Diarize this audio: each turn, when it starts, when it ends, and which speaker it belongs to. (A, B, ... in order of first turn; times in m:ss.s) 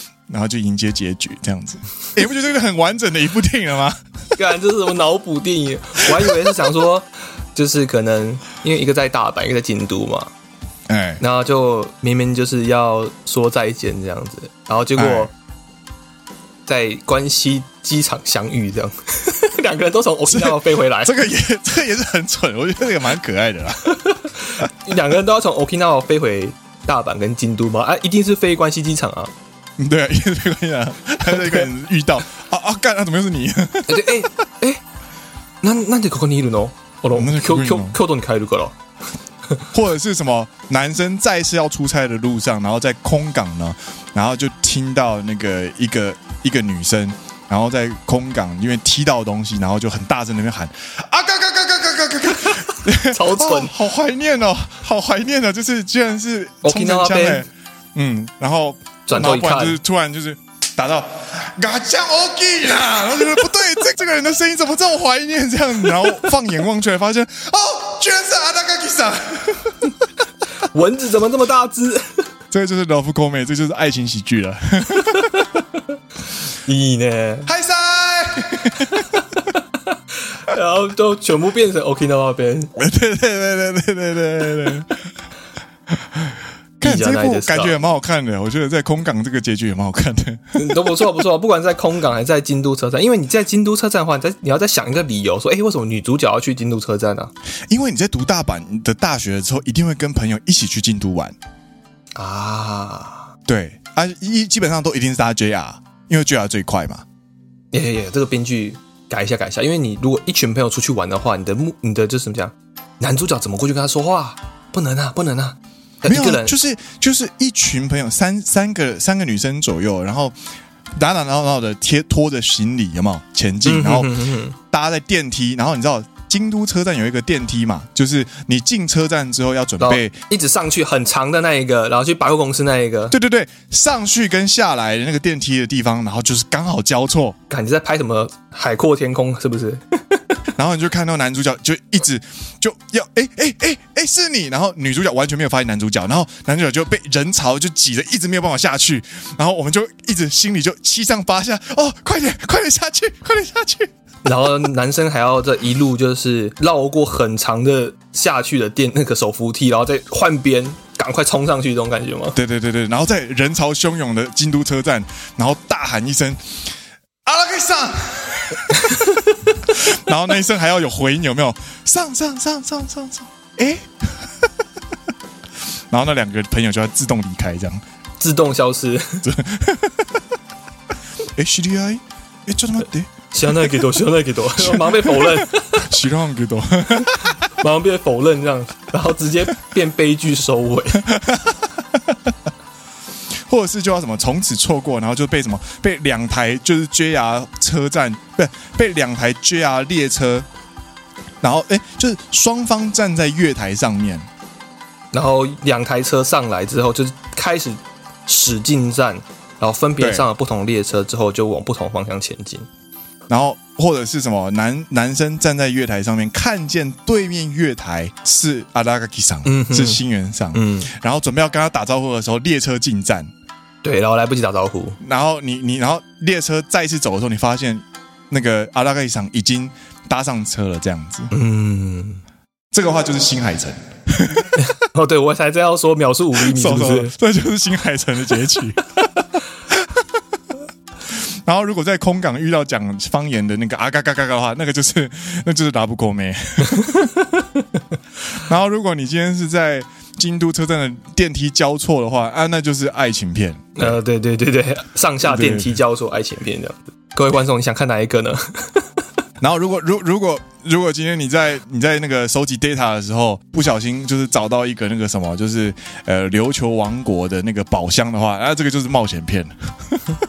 0:00.3-0:04.0 A
0:04.4-0:10.3 B
0:10.9-0:11.2 A
0:11.2-0:15.3 B
0:15.0-0:15.3 A
0:16.7-0:21.1 B
0:20.3-0:24.1 A
0:23.9-0:29.3 B
0:29.8-0:34.3 A
0:33.9-0:34.8 B
0:35.6-0:38.7 B
0:37.1-0:38.0 A
0:39.7-1:09.9 A
0:52.4-0:53.7 B
0:56.6-0:57.4 B
0:59.0-0:59.8 B
1:10.6-1:12.2 B
1:12.5-1:15.5 A
1:15.0-1:15.9 B
1:16.6-1:17.5 B
1:17.5-1:19.4 A
1:18.9-1:22.7 B
1:22.8-1:25.0 A
1:25.9-1:30.9 A
1:26.8-1:27.7 B
1:30.6-1:37.3 B
1:37.7-1:41.3 A
1:42.1-1:43.3 B
1:43.4-1:47.0 A
1:47.7-1:56.5 B
1:56.0-2:00.4 A
2:00.9-2:04.1 A
2:03.6-2:04.6 B
2:04.7-2:10.2 A
2:09.8-2:13.2 B
2:13.1-2:17.4 A
2:17.5-2:20.4 B
2:20.6-2:33.9 A
2:34.2-2:42.4 B
2:42.3-2:46.7 A
2:47.2-2:49.1 A
2:48.8-2:49.4 B
2:49.7-2:54.5 A
2:55.9-2:57.8 A
2:58.2-2:59.2 B
2:59.2-3:00.1 A
3:01.4-3:03.9 A
3:03.3-3:05.9 B
3:04.6-3:07.4 A
3:07.4-3:11.0 B
3:11.0-3:12.3 A
3:13.5-3:20.5 A
3:21.4-3:24.3 A
3:25.1-3:32.7 B
3:30.0-3:30.3 A
3:33.3-3:43.3 A
3:39.4-3:40.0 B
3:40.5-3:40.9 B
3:43.8-3:45.0 B
3:45.0-3:51.3 A
3:51.3-3:52.2 B
3:52.7-3:54.6 A
3:54.6-3:57.1 B
3:56.4-3:58.9 A
3:59.7-4:00.0 A
4:01.1-4:07.1 A
4:06.7-4:07.6 B
4:08.3-4:14.0 A
4:13.8-4:18.8 B
4:15.2-4:15.8 A
4:19.4-4:30.2 A